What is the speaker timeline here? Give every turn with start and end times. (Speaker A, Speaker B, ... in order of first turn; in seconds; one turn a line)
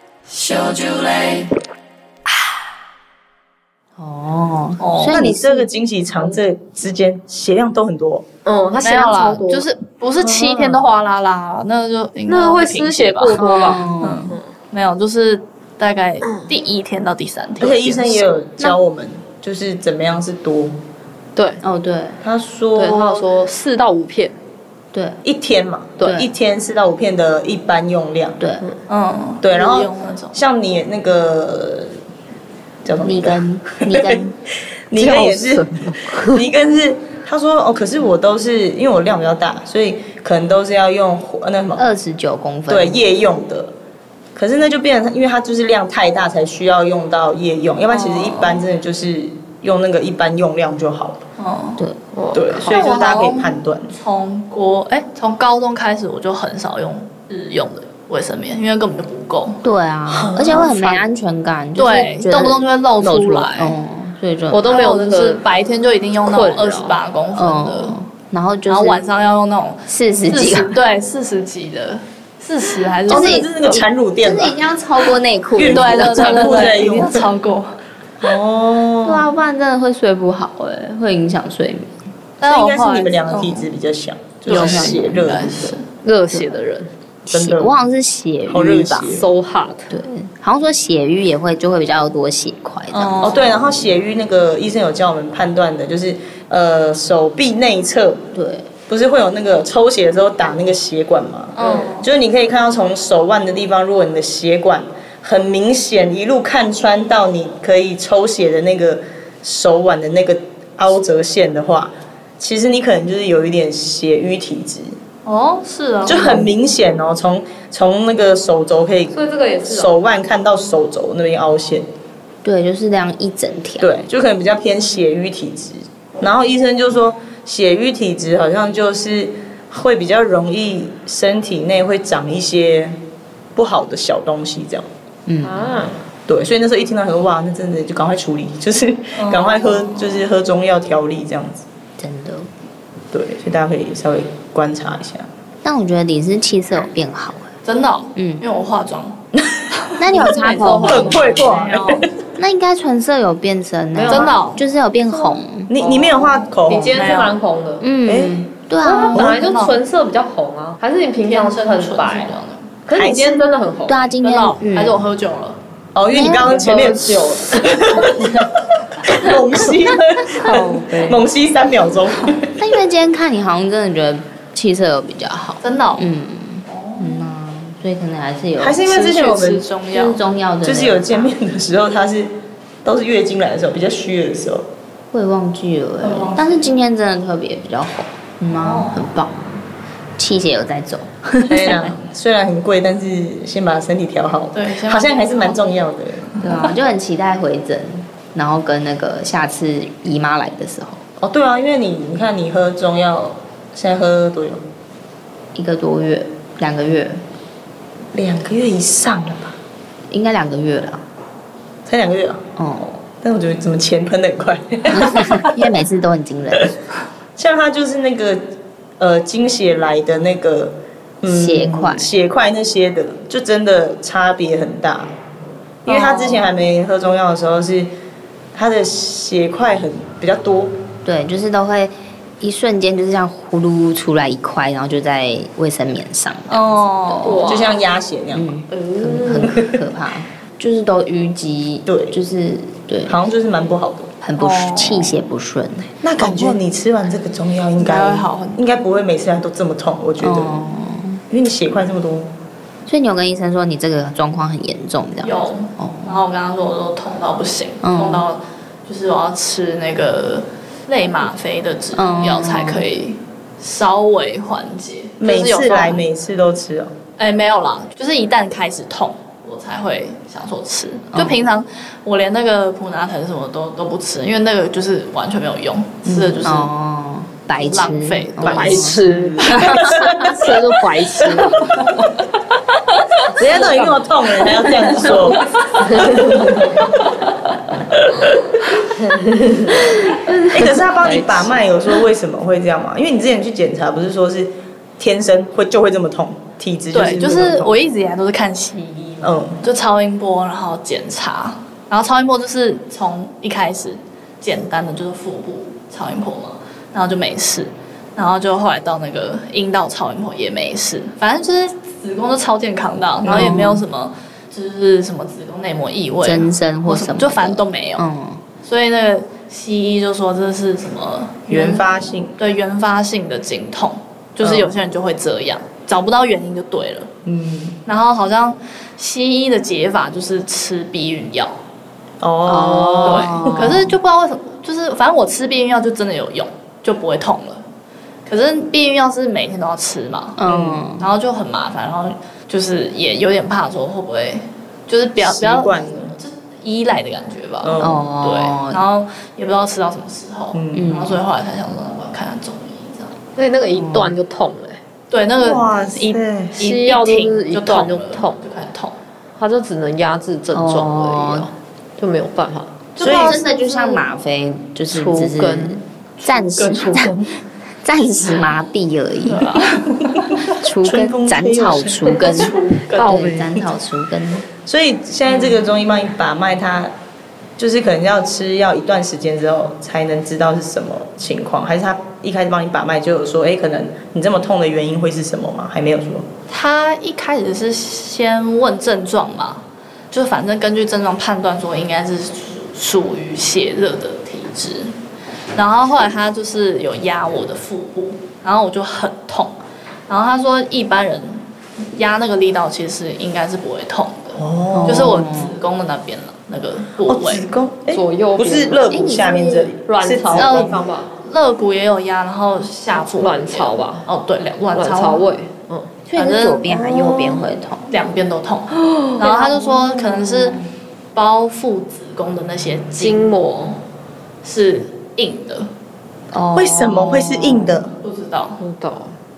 Speaker A: 0.3-0.7
Speaker B: 4.0-5.7
Speaker C: 4.8-5.2
Speaker D: 5.1-8.2
Speaker A: 8.4-9.7
Speaker C: 8.8-13.4
Speaker A: 12.3-14.4
Speaker B: 13.4-14.3
Speaker C: 14.0-18.2
Speaker A: 16.2-16.5
Speaker D: 17.6-20.8
Speaker A: 21.4-21.6
Speaker B: 21.6-22.2
Speaker D: 22.2-23.3
Speaker A: 22.7-24.4
Speaker B: 24.9-25.2
Speaker D: 25.2-28.4
Speaker B: 28.4-28.6
Speaker C: 28.9-30.4
Speaker D: 29.4-31.9
Speaker D: 32.8-34.3
Speaker B: 33.0-34.3
Speaker D: 34.9-41.9
Speaker A: 35.0-36.4
Speaker B: 41.8-43.0
Speaker D: 42.7-43.7
Speaker D: 44.4-51.2
Speaker C: 47.9-48.6
Speaker C: 51.4-51.8
Speaker A: 52.1-52.9
Speaker D: 52.3-53.9
Speaker C: 52.5-59.6
Speaker B: 59.6-64.8
Speaker D: 60.1-61.0
Speaker C: 61.8-63.8
Speaker A: 64.5-65.4
Speaker C: 64.7-67.9
Speaker A: 66.2-67.0
Speaker B: 67.3-69.0
Speaker C: 68.7-73.9
Speaker B: 69.9-70.8
Speaker D: 73.0-74.5
Speaker B: 73.1-76.8
Speaker D: 75.5-77.3
Speaker C: 75.6-77.7
Speaker D: 78.2-79.2
Speaker B: 79.0-82.0
Speaker C: 82.4-83.7
Speaker D: 82.4-85.8
Speaker C: 84.4-86.5
Speaker A: 84.5-85.0
Speaker B: 84.5-85.2
Speaker A: 85.9-86.9
Speaker B: 87.3-89.1
Speaker D: 87.3-87.7
Speaker D: 88.5-89.3
Speaker A: 89.0-90.0
Speaker B: 89.9-93.3
Speaker C: 92.9-93.7
Speaker D: 93.2-98.2
Speaker B: 98.3-98.7
Speaker D: 98.9-115.0
Speaker C: 101.5-102.1
Speaker C: 115.2-116.5
Speaker D: 116.0-121.8
Speaker A: 119.1-120.0
Speaker B: 122.4-123.9
Speaker D: 123.8-133.0
Speaker D: 133.6-134.8
Speaker B: 135.3-135.9
Speaker A: 135.4-136.0
Speaker D: 136.3-141.6
Speaker C: 139.1-140.3
Speaker B: 142.0-142.5
Speaker D: 143.1-145.3
Speaker B: 145.6-147.5
Speaker C: 147.6-149.2
Speaker B: 148.2-148.4
Speaker D: 149.4-149.6
Speaker B: 150.0-151.3
Speaker C: 150.1-152.1
Speaker D: 150.2-152.0
Speaker A: 150.6-151.2
Speaker B: 152.4-155.7
Speaker A: 153.9-154.4
Speaker C: 154.1-154.6
Speaker A: 155.0-157.9
Speaker D: 155.7-157.1
Speaker C: 156.8-157.4
Speaker B: 157.8-159.3
Speaker D: 158.0-158.5
Speaker A: 158.8-164.1
Speaker C: 159.1-159.8
Speaker D: 159.1-159.4
Speaker C: 161.2-162.8
Speaker D: 162.9-163.4
Speaker B: 163.9-165.0
Speaker C: 164.2-165.6
Speaker D: 165.9-168.5
Speaker B: 166.1-166.9
Speaker A: 166.6-167.6
Speaker D: 169.0-172.6
Speaker C: 169.1-169.3
Speaker A: 170.4-171.2
Speaker B: 172.6-178.8
Speaker C: 175.6-176.1
Speaker C: 176.7-177.3
Speaker D: 178.6-179.7
Speaker C: 178.8-180.2
Speaker B: 179.9-181.3
Speaker D: 180.6-184.7
Speaker B: 185.1-189.6
Speaker C: 186.0-186.7
Speaker C: 188.5-189.1
Speaker B: 190.2-191.7
Speaker D: 191.5-196.4
Speaker C: 194.5-195.7
Speaker C: 196.3-196.8
Speaker B: 196.4-201.0
Speaker D: 201.2-204.6
Speaker B: 205.5-207.2
Speaker D: 208.1-209.6
Speaker B: 210.1-211.0
Speaker D: 211.8-212.4
Speaker B: 212.6-213.0
Speaker D: 213.2-215.6
Speaker B: 214.9-216.7
Speaker D: 217.4-218.4
Speaker D: 219.0-225.1
Speaker B: 221.2-222.1
Speaker C: 225.8-226.5
Speaker D: 225.8-227.9
Speaker D: 228.5-230.8
Speaker B: 231.0-237.4
Speaker C: 236.5-237.7
Speaker A: 237.2-237.8
Speaker D: 237.4-238.5
Speaker B: 238.3-243.1
Speaker A: 238.7-239.6
Speaker D: 239.3-239.8
Speaker D: 241.8-242.2
Speaker D: 243.1-244.1
Speaker B: 244.2-246.0
Speaker C: 244.4-245.2
Speaker D: 246.0-250.6
Speaker C: 246.2-246.6
Speaker C: 247.8-248.6
Speaker B: 250.2-251.2
Speaker D: 251.3-252.3
Speaker B: 252.9-256.2
Speaker C: 255.2-266.1
Speaker B: 257.8-258.2
Speaker B: 261.9-262.9
Speaker D: 265.2-266.9
Speaker C: 267.2-276.7
Speaker B: 271.1-271.4
Speaker D: 276.0-276.4
Speaker B: 276.4-279.0
Speaker C: 277.5-278.9
Speaker D: 278.4-280.3
Speaker A: 278.4-281.8
Speaker C: 279.5-280.3
Speaker C: 281.6-281.9
Speaker C: 282.7-283.2
Speaker A: 283.3-285.1
Speaker D: 283.4-285.4
Speaker C: 284.4-286.3
Speaker A: 285.8-286.8
Speaker D: 285.9-287.0
Speaker D: 287.9-288.7
Speaker A: 288.9-291.6
Speaker D: 290.4-297.8
Speaker C: 296.9-318.0
Speaker D: 299.2-299.6
Speaker D: 313.2-313.6
Speaker B: 313.3-313.8
Speaker B: 316.2-318.4
Speaker C: 318.6-327.1
Speaker D: 321.5-322.3
Speaker D: 324.4-324.7
Speaker D: 327.2-327.8
Speaker C: 327.8-331.6
Speaker D: 332.2-333.7
Speaker B: 332.5-333.9
Speaker C: 333.0-337.6
Speaker C: 338.2-353.1
Speaker B: 340.4-341.1
Speaker D: 340.5-340.8
Speaker D: 345.2-346.2
Speaker D: 347.6-348.0
Speaker B: 347.8-348.8
Speaker D: 350.5-351.0
Speaker B: 350.7-351.2
Speaker A: 353.4-354.8
Speaker B: 353.7-354.1
Speaker C: 355.1-358.9
Speaker D: 355.4-356.6
Speaker A: 356.6-358.4
Speaker A: 359.4-363.2
Speaker B: 360.5-361.5
Speaker B: 363.0-367.1
Speaker D: 363.0-363.4
Speaker C: 363.2-364.0
Speaker A: 364.9-365.8
Speaker D: 366.6-367.3
Speaker B: 367.8-369.6
Speaker C: 369.2-370.0
Speaker D: 369.6-373.6
Speaker B: 370.6-374.5
Speaker C: 372.2-372.4
Speaker A: 372.8-373.5
Speaker D: 374.6-376.9
Speaker D: 377.6-386.2
Speaker C: 386.5-394.9
Speaker C: 395.5-399.5
Speaker C: 400.1-407.5
Speaker D: 404.4-405.1
Speaker B: 404.7-405.5
Speaker D: 407.1-410.8
Speaker A: 407.9-408.9
Speaker B: 408.9-409.7
Speaker A: 409.9-411.1
Speaker C: 410.3-415.3
Speaker A: 413.2-414.1
Speaker A: 414.7-416.0
Speaker B: 416.1-417.9
Speaker C: 416.1-420.6
Speaker B: 419.2-420.6
Speaker C: 421.1-423.3
Speaker A: 422.9-423.8
Speaker C: 424.4-425.7
Speaker B: 426.3-427.8
Speaker D: 426.5-427.9
Speaker C: 428.0-428.6
Speaker A: 428.6-429.1